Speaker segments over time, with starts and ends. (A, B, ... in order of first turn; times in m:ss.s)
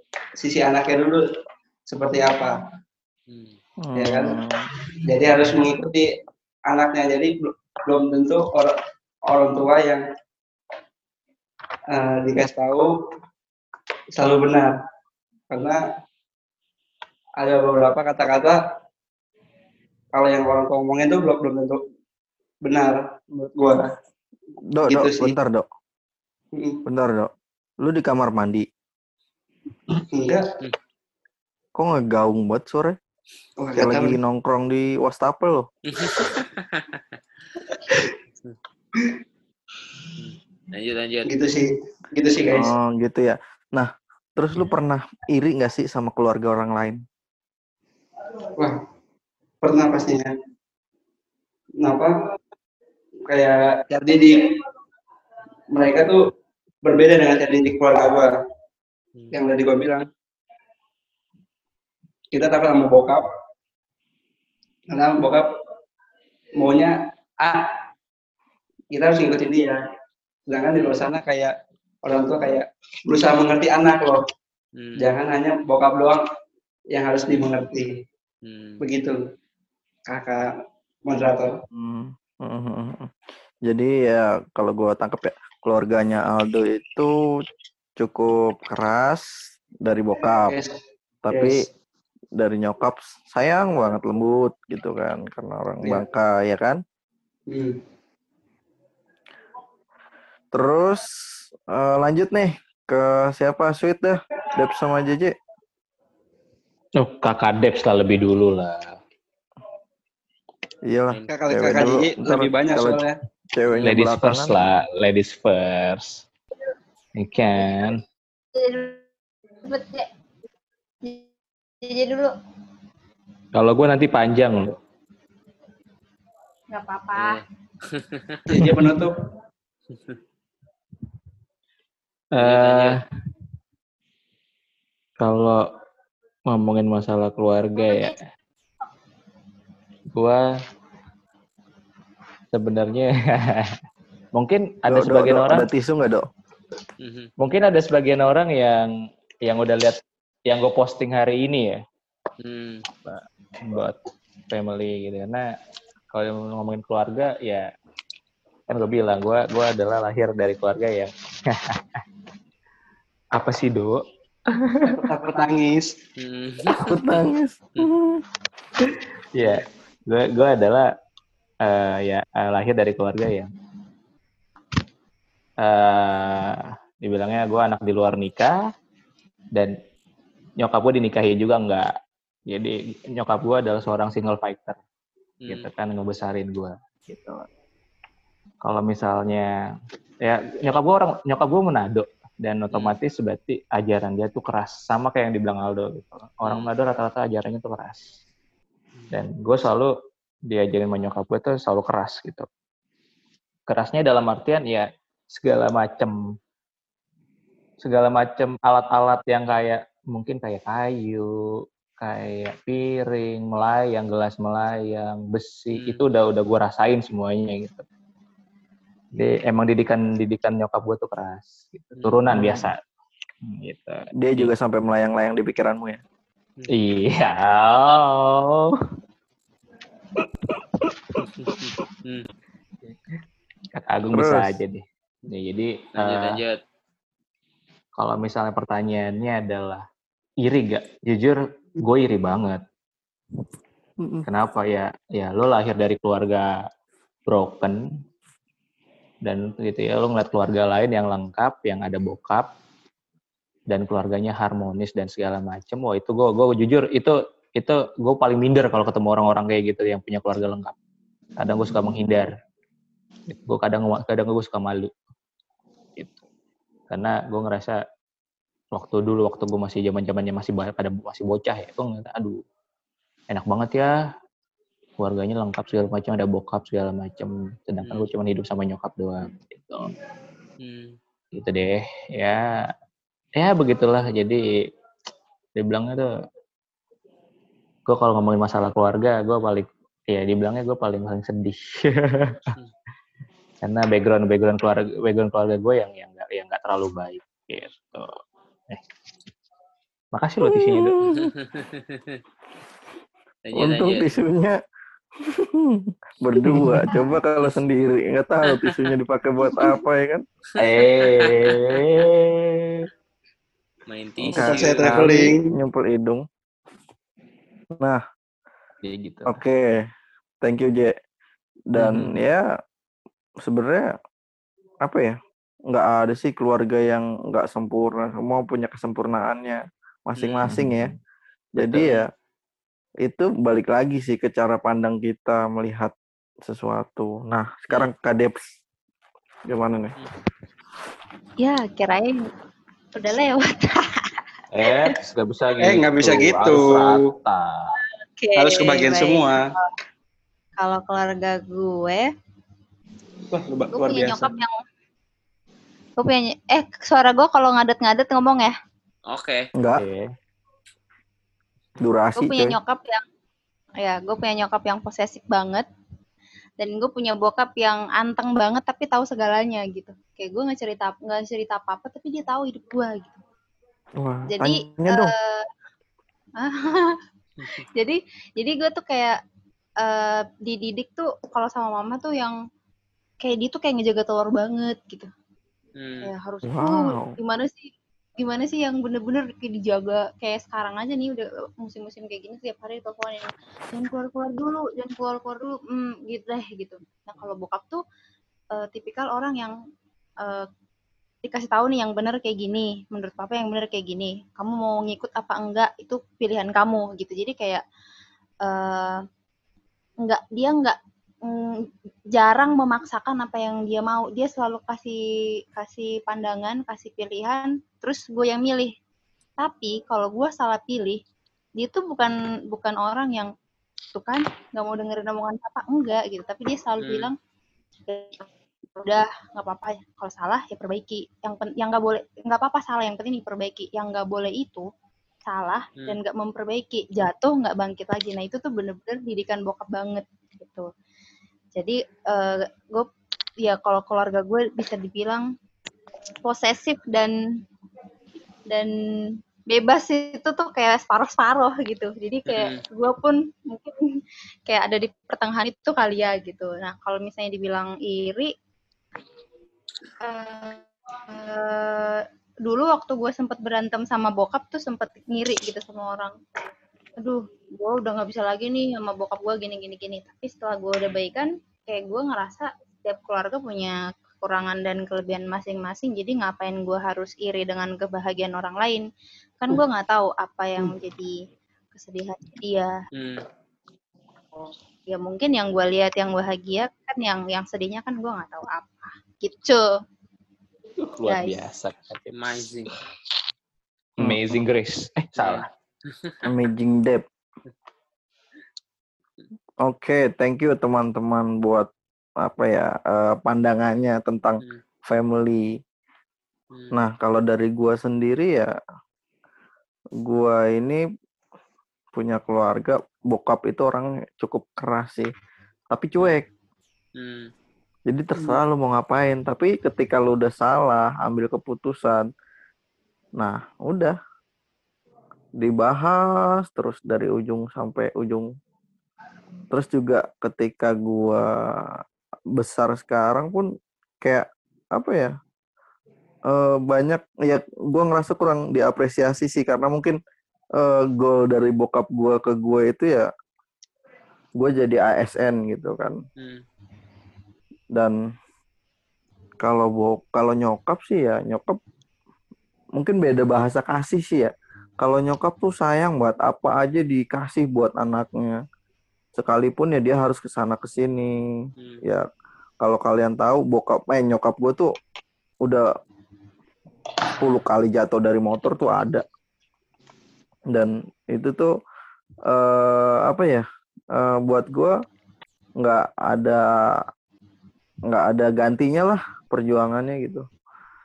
0:00.4-0:01.2 A
0:01.9-0:02.6 A
0:03.3-0:03.6 B
0:03.8-0:04.7 C
0:04.0-0:06.1 A
0:06.7-0:08.7 A
0:09.3-0:10.0 A
0:11.9-0:12.9 A
0:14.1-0:14.7 A
0:15.5-0:15.8 A
0:17.4-0:18.6 A
0:20.1-0:21.8 A
0:22.6-0:23.9 A
0:24.7-0:25.6 C
0:24.9-0:25.3 A
0:26.6-0:26.8 A
0:26.8-0:27.3 C
0:27.8-0:28.6 C
0:29.9-0:30.4 A
0:31.8-0:33.0 C
0:33.6-0:34.2 A
0:33.8-0:35.7 C
0:35.9-0:37.2 B
0:37.7-0:38.1 A
0:40.2-0:41.3 B
0:41.3-0:42.7 A
0:42.5-0:47.0 C
0:49.6-0:50.3 A
0:51.8-0:52.1 A
0:53.3-0:54.6 A
0:55.7-0:56.2 A
0:56.8-0:58.3 A
0:59.1-0:59.4 B
0:59.3-1:00.1 A
1:02.3-1:03.2 A
1:04.9-1:05.5 A
1:06.6-1:07.8 A
1:08.9-1:09.8 A
1:10.5-1:14.2 A
1:10.8-1:11.0 B
1:14.8-1:15.1 B
1:15.0-1:16.2 A
1:16.9-1:17.9 A
1:18.4-1:18.8 B
1:18.8-1:19.2 A
1:20.1-1:20.5 A
1:21.1-1:21.6 A
1:21.7-1:23.1 C
1:23.6-1:27.1 C
1:28.0-1:29.3 C
1:29.8-1:30.5 C
1:30.5-1:30.7 A
1:31.2-1:31.6 C
1:31.3-1:31.6 A
1:32.4-1:36.8 C
1:37.5-1:37.8 A
1:40.5-1:41.1 C
1:41.7-1:45.3 C
1:47.0-1:49.0 D
1:50.9-1:54.7 C
1:51.1-1:51.4 B
1:51.3-1:53.1 A
1:53.7-1:54.0 B
1:53.8-1:56.2 D
1:57.2-1:58.0 D
1:58.6-1:59.0 E
1:59.6-2:00.1 E
2:01.8-2:02.3 E
2:03.5-2:04.7 D
2:06.7-2:07.4 E
2:07.2-2:08.6 B
2:08.5-2:09.2 A
2:08.6-2:09.0 D
2:09.9-2:10.2 B
2:12.3-2:13.0 D
2:12.4-2:13.0 B
2:15.2-2:15.6 D
2:16.5-2:18.3 D
2:20.1-2:20.4 D
2:22.5-2:23.8 D
2:24.3-2:25.7 D
2:24.9-2:26.2 C
2:27.0-2:27.3 B
2:27.4-2:28.9 D
2:29.4-2:31.8 D
2:32.4-2:32.8 B
2:33.0-2:35.4 D
2:36.1-2:37.7 D
2:38.7-2:42.0 D
2:43.3-2:45.1 D
2:44.9-2:45.9 A
2:46.2-2:47.0 B
2:46.7-2:48.2 C
2:48.8-2:50.9 D
2:49.4-2:49.6 B
2:51.6-2:53.5 D
2:55.6-2:58.6 D
3:00.6-3:01.9 D
3:02.5-3:04.8 D
3:05.5-3:07.5 D
3:08.6-3:09.5 D
3:10.2-3:18.2 D
3:16.4-3:16.7 B
3:19.1-3:19.9 D
3:20.5-3:22.5 D
3:23.7-3:26.1 D
3:27.8-3:31.3 D
3:32.0-3:37.8 D
3:35.8-3:36.0 B
3:39.1-3:42.8 D
3:42.0-3:42.6 B
3:43.4-3:44.5 D
3:44.2-3:46.0 C
3:46.7-3:48.8 D
3:51.2-3:52.3 B
3:52.8-3:53.2 D
3:53.7-3:56.4 D
3:54.1-3:54.6 C
3:56.0-3:56.6 B
3:58.0-3:59.8 D
4:00.4-4:02.6 D
4:04.2-4:06.5 D
4:07.3-4:07.8 D
4:09.2-4:12.5 D
4:13.7-4:20.8 D
4:21.4-4:22.3 D
4:23.3-4:24.9 D
4:26.0-4:26.2 D
4:26.9-4:27.8 D
4:28.7-4:32.4 D
4:33.3-4:33.9 D
4:35.0-4:39.9 D
4:40.6-4:41.0 B
4:41.3-4:42.4 D
4:43.4-4:44.4 D
4:45.6-4:46.1 D
4:47.9-4:52.6 D
4:53.6-4:58.2 D
5:00.1-5:01.0 D
5:00.4-5:01.3 C
5:01.1-5:02.2 B
5:03.5-5:04.2 B
5:03.6-5:04.6 C
5:05.2-5:10.2 C
5:06.4-5:07.0 D
5:10.6-5:12.9 D
5:10.6-5:11.8 B
5:13.9-5:15.2 B
5:14.2-5:16.2 C
5:14.4-5:15.5 A
5:18.8-5:19.4 D
5:19.3-5:19.8 C
5:20.4-5:20.9 C
5:21.7-5:22.4 C
5:21.8-5:22.2 D
5:23.4-5:23.9 C
5:24.8-5:25.1 C
5:25.7-5:30.9 C
5:30.2-5:30.5 B
5:30.4-5:30.9 D
5:31.6-5:32.1 C
5:31.6-5:32.1 B
5:33.0-5:35.9 C
5:36.4-5:38.4 C
5:39.5-5:39.9 C
5:41.4-5:42.2 E
5:42.9-5:44.1 E
5:44.5-5:47.7 D
5:44.6-5:44.9 E
5:45.6-5:47.0 A
5:48.2-5:49.7 E
5:48.4-5:49.4 A
5:50.6-5:52.1 E
5:53.3-5:54.3 A
5:53.7-5:54.6 E
5:56.0-5:58.5 E
5:59.1-5:59.5 B
5:59.6-5:59.8 C
5:59.8-6:00.1 D
6:01.8-6:02.6 C
6:02.2-6:03.0 E
6:03.8-6:05.6 E
6:06.6-6:13.2 E
6:14.0-6:15.1 C
6:14.3-6:15.4 E
6:16.4-6:16.9 E
6:17.7-6:19.2 E
6:19.8-6:22.4 E
6:23.2-6:25.1 E
6:25.8-6:26.1 B
6:26.0-6:37.8 E
6:26.5-6:27.2 C
6:38.5-6:39.5 E
6:41.2-6:47.6 E
6:48.4-6:49.0 E
6:50.0-6:51.6 E
6:52.1-6:55.0 E
6:55.6-6:58.7 E
6:59.4-7:01.0 E
7:01.6-7:03.3 E
7:03.9-7:07.1 E
7:06.8-7:07.1 B
7:07.9-7:14.6 E
7:15.3-7:20.7 E
7:21.6-7:22.9 E
7:23.4-7:25.3 E
7:26.2-7:27.1 E
7:29.5-7:33.8 E
7:32.3-7:32.6 B
7:34.5-7:38.3 E
7:40.0-7:46.1 E
7:47.0-7:58.8 E
7:59.4-8:01.1 E
8:01.7-8:02.7 E
8:02.9-8:03.2 B
8:04.9-8:09.6 E
8:10.8-8:12.8 D
8:11.0-8:11.5 E
8:12.1-8:12.7 B
8:14.0-8:15.5 D
8:14.0-8:14.4 C
8:15.2-8:16.3 B
8:16.2-8:17.0 C
8:19.6-8:21.7 C
8:22.2-8:25.5 C
8:26.5-8:26.8 B
8:26.7-8:28.5 C
8:30.0-8:30.8 C
8:31.9-8:35.1 C
8:35.7-8:36.2 C
8:37.0-8:37.3 B
8:37.9-8:42.1 C
8:43.2-8:43.9 C
8:45.4-8:48.3 C
8:49.5-8:51.8 C
8:52.4-8:53.5 C
8:54.0-8:55.1 C
8:56.3-9:00.0 C
9:00.6-9:03.1 C
9:04.4-9:06.0 C
9:06.2-9:06.4 B
9:09.4-9:11.6 C
9:12.8-9:18.4 C
9:19.2-9:21.2 C
9:21.6-9:21.8 B
9:22.6-9:24.7 C
9:27.2-9:29.0 C
9:30.5-9:31.5 C
9:32.3-9:34.7 C
9:35.6-9:36.4 C
9:37.9-9:40.2 C